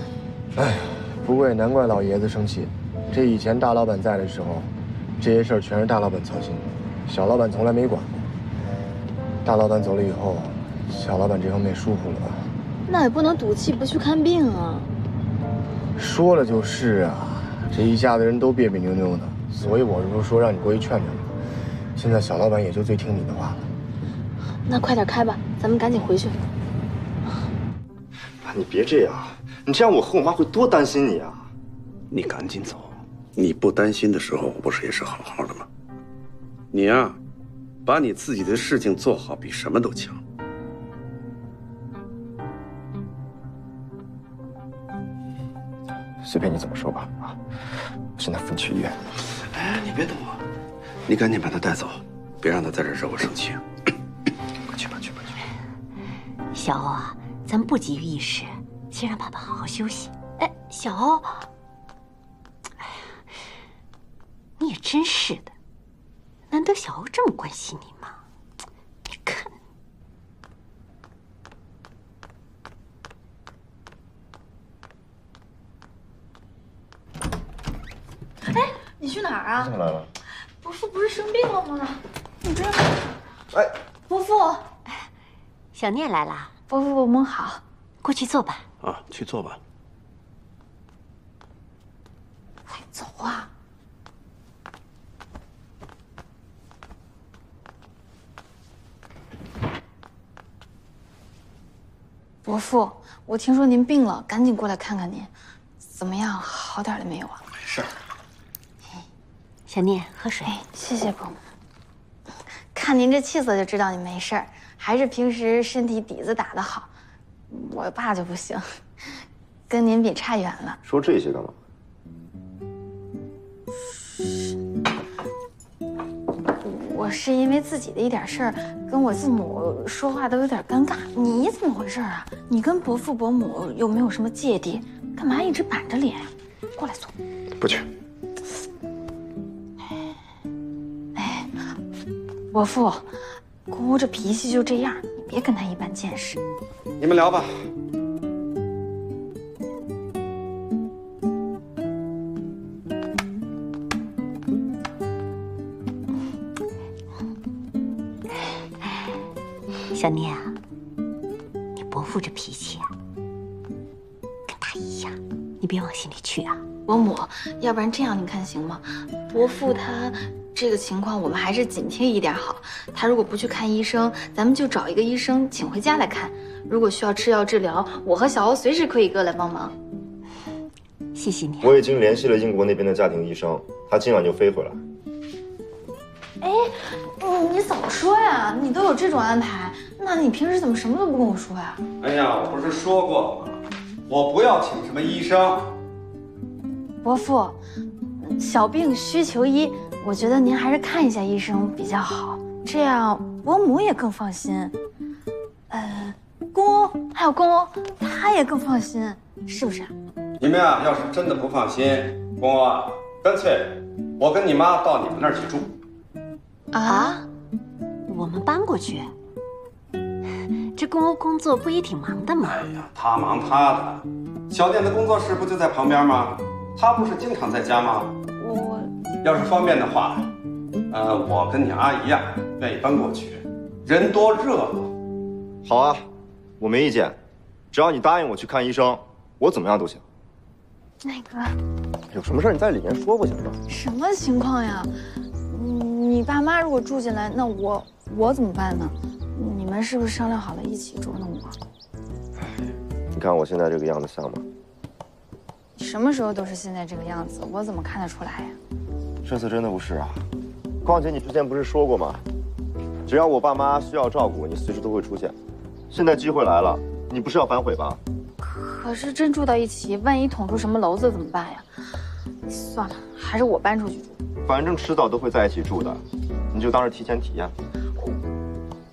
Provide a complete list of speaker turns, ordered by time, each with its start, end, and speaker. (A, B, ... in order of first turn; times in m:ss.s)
0:00.6-0:08.2 A
0:09.4-0:12.4 A
0:12.9-0:14.9 B
0:16.0-0:21.3 A
0:22.0-0:23.7 A
0:24.7-0:26.4 B
0:28.4-0:31.5 C
0:32.1-0:35.7 D
0:36.7-0:37.2 D
0:37.8-0:40.2 D
0:46.2-0:47.4 C
0:48.2-0:49.0 C
0:49.5-0:50.4 D
0:51.1-0:53.6 D
0:54.8-0:55.2 C
0:56.5-1:01.4 E
1:04.6-1:05.5 E
1:06.5-1:08.2 E
1:09.1-1:09.6 E
1:18.4-1:19.7 B
1:19.6-1:20.1 C
1:20.6-1:23.0 B
1:24.1-1:24.7 B
1:25.7-1:26.5 E
1:26.7-1:27.6 B
1:28.0-1:28.6 E
1:28.8-1:29.6 D
1:32.7-1:33.5 B
1:42.4-1:45.3 B
1:45.9-1:47.4 B
1:47.6-1:47.9 D
1:49.7-1:50.6 E
1:50.5-1:51.4 B
1:52.7-1:56.9 B
1:57.5-1:58.6 B
1:59.7-2:00.8 B
2:00.8-2:01.6 C
2:06.6-2:17.1 B
2:17.6-2:17.9 C
2:21.1-2:21.6 B
2:22.5-2:23.1 B
2:23.7-2:26.4 B
2:27.0-2:27.5 D
2:39.9-2:40.6 E
2:41.7-2:42.9 E
2:44.5-2:46.6 E
2:46.8-2:59.7 B
3:01.1-3:01.8 E
3:01.6-3:04.8 C
3:06.4-3:11.8 B
3:12.0-3:15.7 D
3:17.0-3:17.6 B
3:18.2-3:24.7 B
3:25.7-3:29.9 B
3:30.4-3:35.7 D
3:36.7-3:37.2 B
3:36.8-3:37.2 E
3:38.0-3:39.1 E
3:40.7-3:42.7 E
3:42.4-3:48.1 D
3:48.4-3:48.9 B
3:49.2-3:50.3 D
3:50.9-3:54.9 D
3:55.6-3:56.1 C
3:56.6-3:57.2 C
3:57.7-4:00.0 C
4:01.0-4:01.6 B
4:02.1-4:03.6 C
4:03.7-4:04.9 B
4:05.5-4:11.6 B
4:13.1-4:14.4 C
4:15.8-4:18.6 B
4:19.2-4:20.2 C
4:20.8-4:22.2 C
4:23.0-4:25.4 C
4:25.9-4:28.0 C
4:28.4-4:31.7 B
4:32.5-4:34.2 B
4:34.4-4:37.5 C